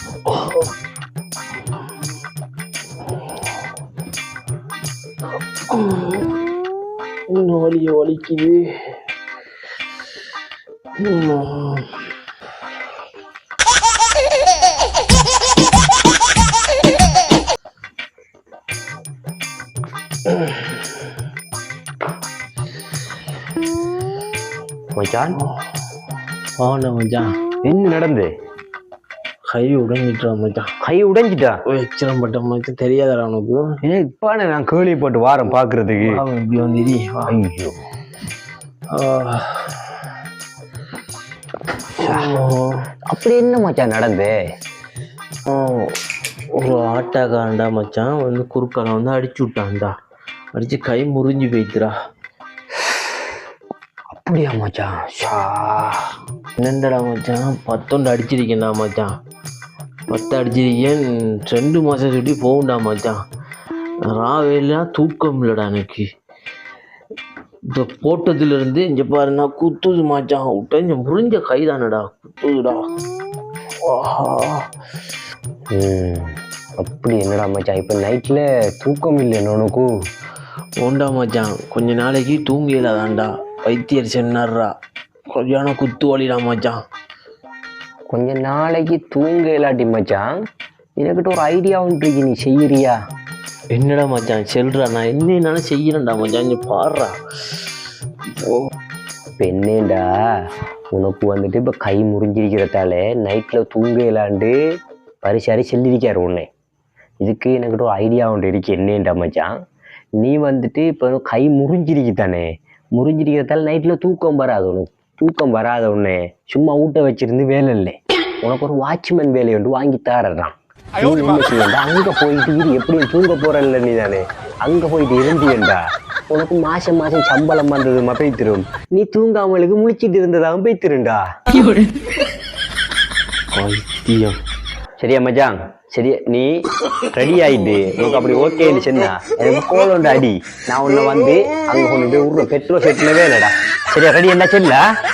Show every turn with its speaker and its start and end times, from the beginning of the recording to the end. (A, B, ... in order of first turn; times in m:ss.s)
0:00.3-0:00.7 A
0:05.7-0:06.4 A
0:07.3-0:09.0 A
0:11.0-0:12.0 A
0:20.3-0:20.7 A
0:25.0-0:25.4 B
0:26.6-0:27.4 A
0:27.6-0:28.3 B
0:29.5-0:30.7 A
0:30.8-0:31.6 B
0:31.7-0:33.8 A
0:33.8-0:36.2 B
0:36.0-0:37.4 A
0:37.3-0:37.8 B
0:38.9-0:39.9 A
0:42.0-0:42.9 A
0:42.0-0:42.4 B
0:43.1-0:44.4 B
0:45.5-0:46.0 A
0:46.5-0:49.9 A
0:50.5-0:51.9 A
0:54.1-0:56.1 B
0:56.6-0:59.1 A
1:00.1-1:03.2 A
1:04.0-1:06.1 A
1:07.7-1:12.9 A
1:13.8-1:14.7 A
1:15.7-1:19.9 B
1:20.8-1:24.7 A
1:25.3-1:26.8 A
1:28.1-1:30.4 B
1:31.0-1:33.0 B
1:33.7-1:37.6 A
1:38.4-1:38.7 A
1:39.4-1:40.1 B
1:40.9-1:44.6 B
1:45.2-1:46.5 B
1:47.2-1:49.5 B
1:50.2-2:11.3 B
2:13.5-2:14.4 A
2:15.0-2:16.5 B
2:17.1-2:24.8 B